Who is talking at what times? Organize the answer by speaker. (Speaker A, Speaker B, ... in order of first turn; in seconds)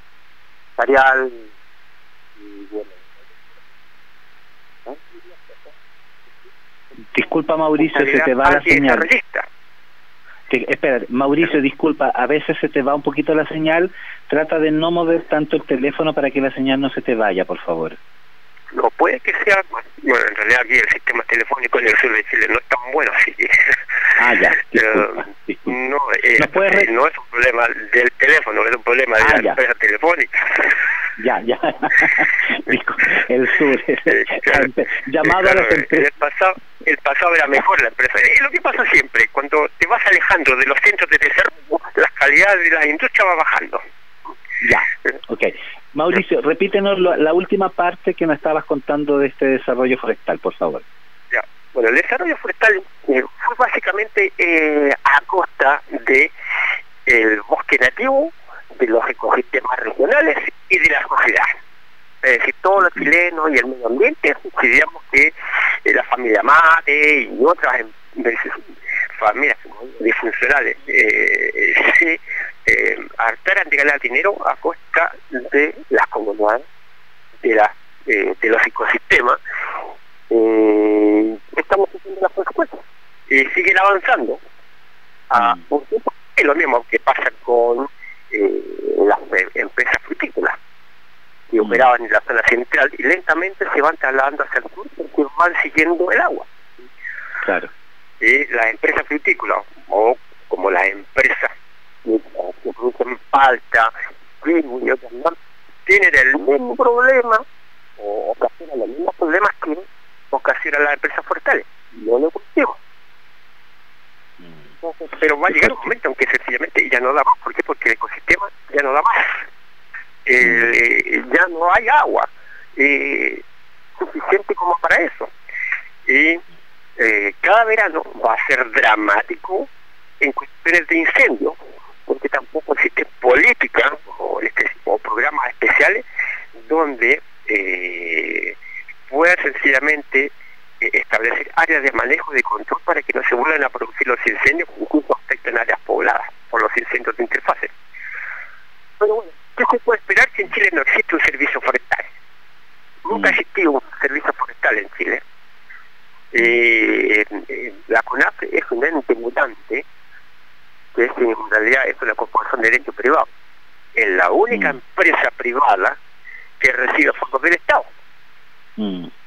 Speaker A: 0.8-1.5, 2.4-3.0, 4.9-5.7, 7.8-9.4, 18.7-23.8, 24.7-30.7, 34.1-34.7, 35.2-43.8, 51.3-56.3, 57.1-61.5, 62.2-68.6, 69.2-76.6, 77.4-79.4, 80.3-84.4, 85.3-90.6, 91.5-96.5, 98.2-101.5, 102.0-107.4, 108.0-112.8, 114.8-119.5, 120.3-123.4, 124.0-125.3, 126.1-126.4, 127.0-129.7, 130.2-136.0, 136.6-138.6, 139.1-147.7, 149.0-152.1, 153.1-155.2, 156.3-159.8, 160.9-163.3, 163.9-166.0, 166.6-167.9
Speaker B: 7.1-9.1, 10.5-18.0, 24.2-25.7, 26.4-26.9, 29.2-29.6, 31.2-36.1, 44.6-50.8, 85.3-85.6, 91.6-91.9, 97.4-97.7, 114.4-114.7, 115.5-115.9, 153.1-153.4, 164.5-164.8, 168.8-169.1